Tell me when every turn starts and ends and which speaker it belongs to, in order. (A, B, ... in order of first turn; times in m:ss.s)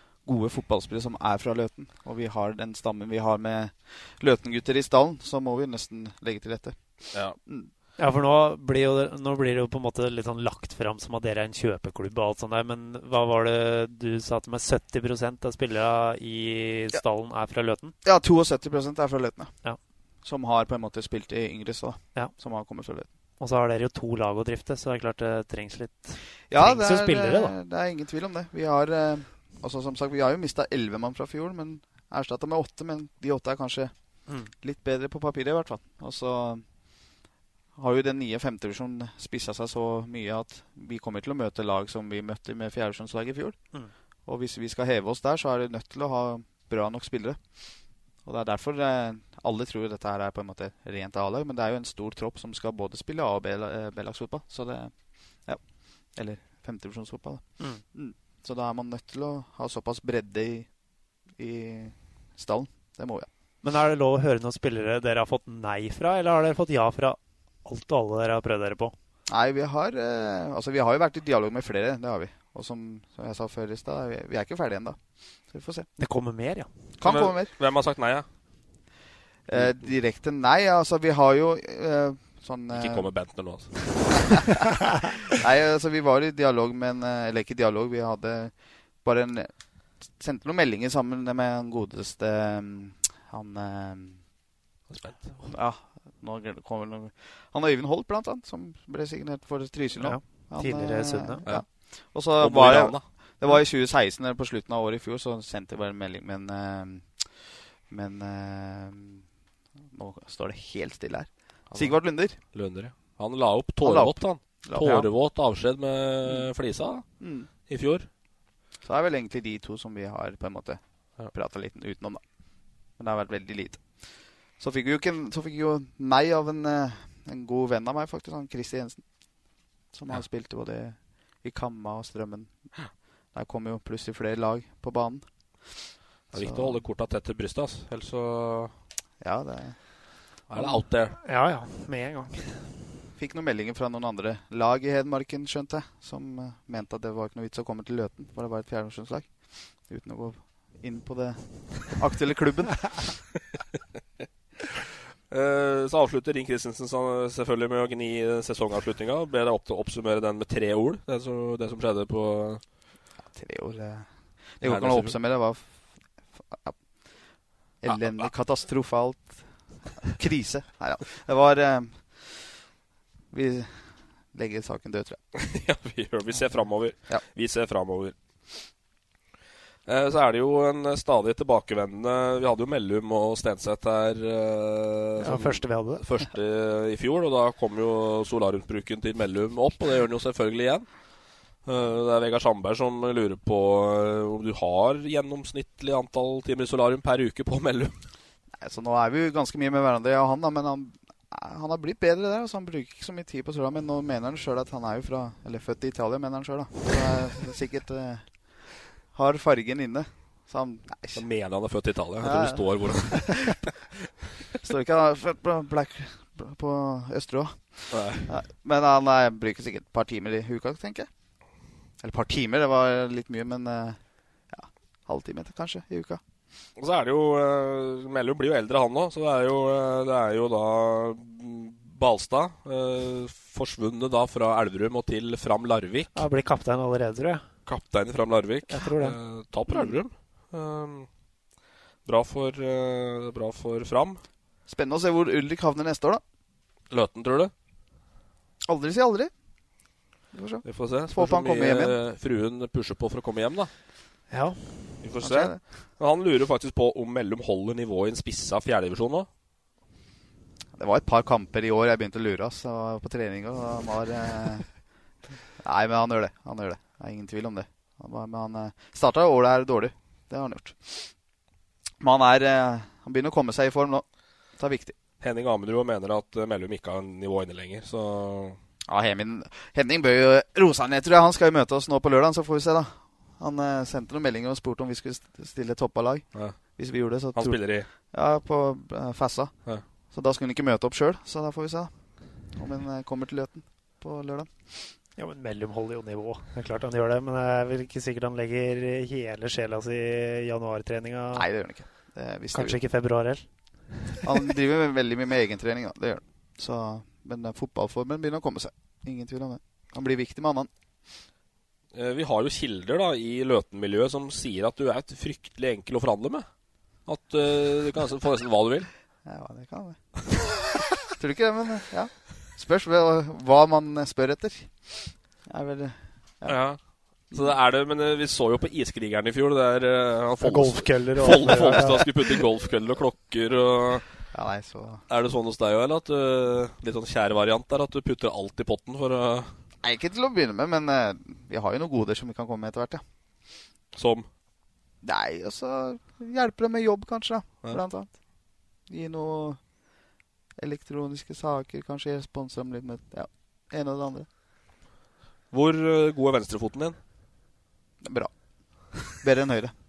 0:00.2-0:07.7 A
0:08.0-0:18.0 B
0:18.0-0:19.5 A
0:20.2-0:23.1 A
0:23.4-0:27.5 B
0:26.5-0:33.9 A
0:34.3-0:34.5 B
0:34.6-0:36.6 A
0:37.8-0:43.6 A
0:44.2-0:47.4 A
0:48.2-0:54.9 A
0:56.1-1:00.7 A
1:01.4-1:03.3 A
1:03.6-1:08.9 B
1:09.3-1:15.0 A
1:15.5-1:15.9 A
1:16.0-1:16.7 B
1:17.0-1:17.5 A
1:17.0-1:18.2 C
1:19.5-1:23.1 A
1:19.5-1:19.8 C
1:22.7-1:24.3 C
1:23.9-1:34.2 A
1:34.9-1:35.4 C
1:35.4-1:49.2 A
1:40.0-1:41.4 B
1:42.4-1:43.0 C
1:49.9-1:52.4 A
1:51.7-1:52.0 C
1:52.5-1:57.1 C
1:53.8-1:55.1 A
1:57.2-1:57.5 A
1:57.7-1:58.1 C
1:58.8-2:02.2 A
2:03.0-2:04.0 A
2:04.6-2:09.0 A
2:09.9-2:12.8 A
2:13.3-2:15.2 A
2:16.3-2:16.8 A
2:16.3-2:18.7 C
2:19.2-2:19.8 A
2:20.5-2:21.2 C
2:20.5-2:20.8 A
2:21.2-2:22.6 B
2:23.2-2:33.2 A
2:35.3-2:42.6 C
2:43.2-2:45.7 A
2:44.6-2:45.1 C
2:46.3-2:46.8 A
2:47.8-2:52.6 A
2:47.9-2:48.3 C
2:53.3-2:55.2 A
2:55.3-2:58.1 C
2:59.8-3:10.8 C
3:05.2-3:06.0 B
3:11.6-3:18.0 C
3:18.6-3:31.2 A
3:31.1-3:33.7 C
3:32.2-3:33.6 A
3:34.6-3:41.1 A
3:37.9-3:38.3 C
3:42.0-3:44.0 A
3:44.5-3:46.2 A
3:46.8-3:56.2 C
3:56.1-3:57.4 B
3:57.6-4:01.1 C
3:58.7-3:59.2 B
3:59.7-4:00.0 A
4:02.0-4:04.2 C
4:04.7-4:06.2 A
4:06.9-4:07.5 C
4:08.6-4:09.3 A
4:10.3-4:12.0 A
4:10.6-4:13.7 C
4:14.3-4:14.6 B
4:15.0-4:19.3 C
4:15.2-4:15.6 A
4:20.8-4:24.7 A
4:25.6-4:31.1 A
4:32.0-4:34.0 A
4:34.6-4:35.0 A
4:35.2-4:38.6 C
4:38.9-4:49.5 A
4:46.3-4:46.6 C
4:47.3-4:47.9 C
4:50.1-4:51.9 A
4:52.5-4:54.5 A
4:55.2-5:01.4 B
5:01.3-5:02.8 A
5:02.5-5:03.4 B
5:04.2-5:10.7 A
5:11.9-5:16.4 C
5:17.0-5:18.9 C
5:19.2-5:20.0 A
5:21.1-5:26.6 A
5:26.5-5:26.8 C
5:27.3-5:34.1 C
5:30.4-5:32.1 B
5:34.3-5:35.0 A
5:35.1-5:39.5 C
5:39.8-5:43.0 A
5:43.9-5:44.3 C
5:45.0-5:48.1 A
5:48.9-5:49.6 A
5:50.6-5:54.3 A
5:55.5-5:57.0 C
5:58.0-5:58.3 A
5:59.0-5:59.7 A